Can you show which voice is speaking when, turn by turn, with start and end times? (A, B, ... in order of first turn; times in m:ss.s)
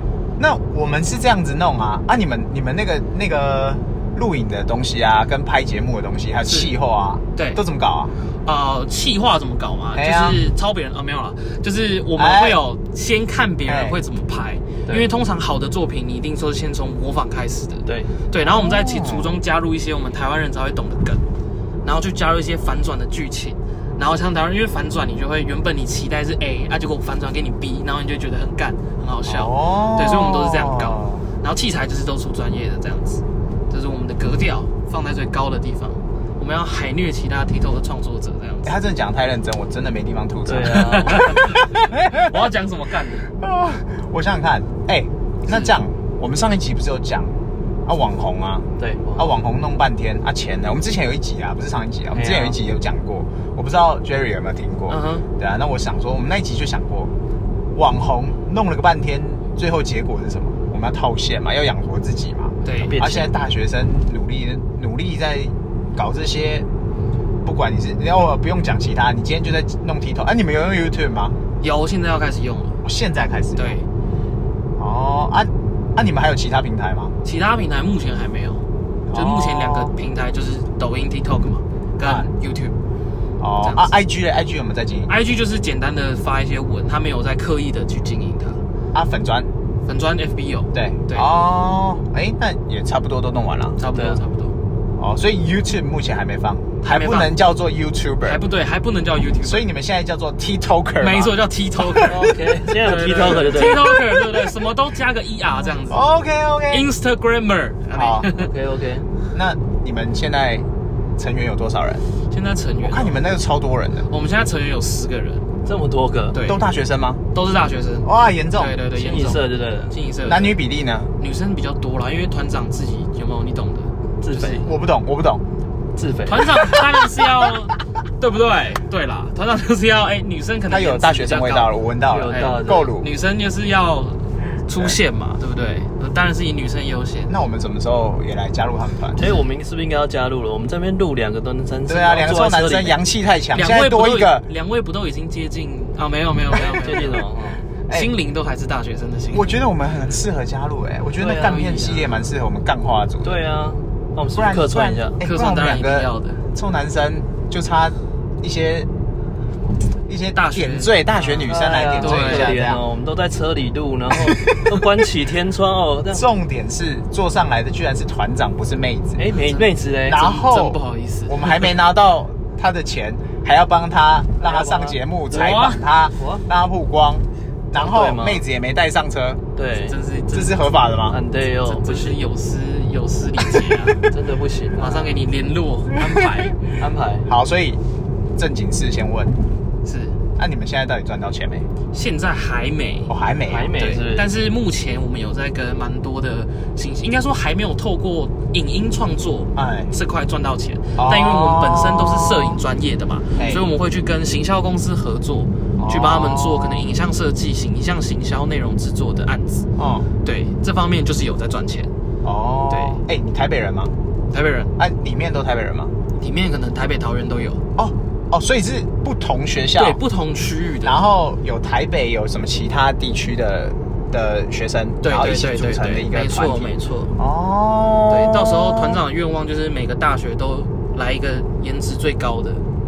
0:00.4-0:08.1 A
0:06.5-0:06.7 B
0:07.4-0:07.6 B
0:08.4-0:21.2 B
0:09.9-0:10.4 A
0:12.2-0:12.6 A
0:13.7-0:14.0 A
0:17.8-0:18.1 C
0:18.4-0:19.4 A
0:21.8-0:38.8 B
0:29.2-0:31.2 A
0:38.6-0:42.5 A
0:40.5-0:41.3 C
0:40.7-0:43.3 B
0:43.3-0:47.3 A
0:45.5-0:45.8 B
0:47.8-0:57.1 A
0:48.8-0:49.3 C
0:52.1-0:52.6 C
0:54.9-0:55.3 B
0:57.7-1:06.7 A
1:02.6-1:02.9 B
1:02.7-1:03.3 C
1:07.4-1:11.3 A
1:11.6-1:12.8 B
1:12.8-1:13.8 A
1:13.6-1:13.8 B
1:14.8-1:17.1 A
1:17.2-1:22.8 B
1:19.1-1:19.9 A
1:22.0-1:22.3 A
1:23.4-1:25.1 A
1:23.6-1:23.9 B
1:25.1-1:28.6 B
1:28.9-1:29.5 A
1:29.8-1:31.3 B
1:30.7-1:33.8 A
1:33.8-1:34.6 B
1:33.9-1:34.2 C
1:35.0-1:38.4 A
1:36.8-1:37.3 B
1:38.2-1:39.7 B
1:39.4-1:42.2 A
1:41.0-1:46.0 B
1:42.0-1:43.8 C
1:43.5-1:44.3 A
1:45.9-1:46.9 A
1:46.7-1:48.5 B
1:47.9-1:48.3 A
1:48.3-1:49.0 C
1:49.3-1:50.7 A
1:51.2-1:52.0 A
1:52.3-1:53.2 B
1:52.8-1:54.1 A
1:54.1-1:55.5 B
1:55.6-1:56.4 C
1:56.3-1:56.6 B
1:56.4-1:57.2 A
1:57.3-2:00.6 B
1:58.0-1:58.8 A
1:59.0-1:59.9 C
2:00.2-2:01.1 A
2:01.2-2:04.7 B
2:04.2-2:04.7 C
2:04.6-2:05.4 A
2:06.0-2:06.6 C
2:06.2-2:11.7 B
2:10.7-2:13.1 A
2:12.1-2:12.9 C
2:12.3-2:17.3 B
2:17.3-2:19.2 A
2:19.2-2:23.0 C
2:21.9-2:24.4 A
2:23.5-2:27.3 B
2:26.5-2:27.7 C
2:27.9-2:29.5 B
2:29.3-2:33.4 A
2:31.2-2:31.7 C
2:31.2-2:32.2 B
2:33.2-2:35.2 C
2:34.3-2:38.9 A
2:35.2-2:36.4 B
2:40.1-2:42.8 A
2:40.4-2:42.5 B
2:41.5-2:46.2 C
2:44.2-2:44.8 A
2:46.1-2:49.2 A
2:49.2-2:50.3 C
2:50.1-2:59.4 A
2:50.1-2:51.7 B
2:54.4-2:55.0 C
2:55.3-2:55.8 B
2:56.2-2:56.4 C
2:57.7-2:58.4 C
2:59.6-3:00.0 C
2:59.8-3:00.7 B
3:00.3-3:01.2 A
3:01.1-3:02.2 C
3:01.5-3:04.0 B
3:04.1-3:05.2 C
3:04.8-3:06.6 B
3:06.8-3:07.3 C
3:07.3-3:07.8 A
3:08.4-3:09.4 A
3:09.8-3:10.2 B
3:10.4-3:11.7 A
3:11.9-3:13.1 B
3:13.1-3:13.8 A
3:13.5-3:14.3 C
3:13.7-3:29.7 B
3:19.6-3:19.9 A
3:21.0-3:22.6 A
3:23.4-3:23.7 A
3:25.8-3:26.8 A
3:29.8-3:30.1 A
3:30.2-3:31.9 B
3:32.2-3:33.9 A
3:32.7-3:33.0 B
3:34.3-3:34.7 B
3:34.8-3:35.9 A
3:36.2-3:37.6 B
3:37.8-3:40.0 A
3:39.7-3:41.0 B
3:40.8-3:49.0 A
3:45.0-3:47.1 B
3:48.1-3:52.6 B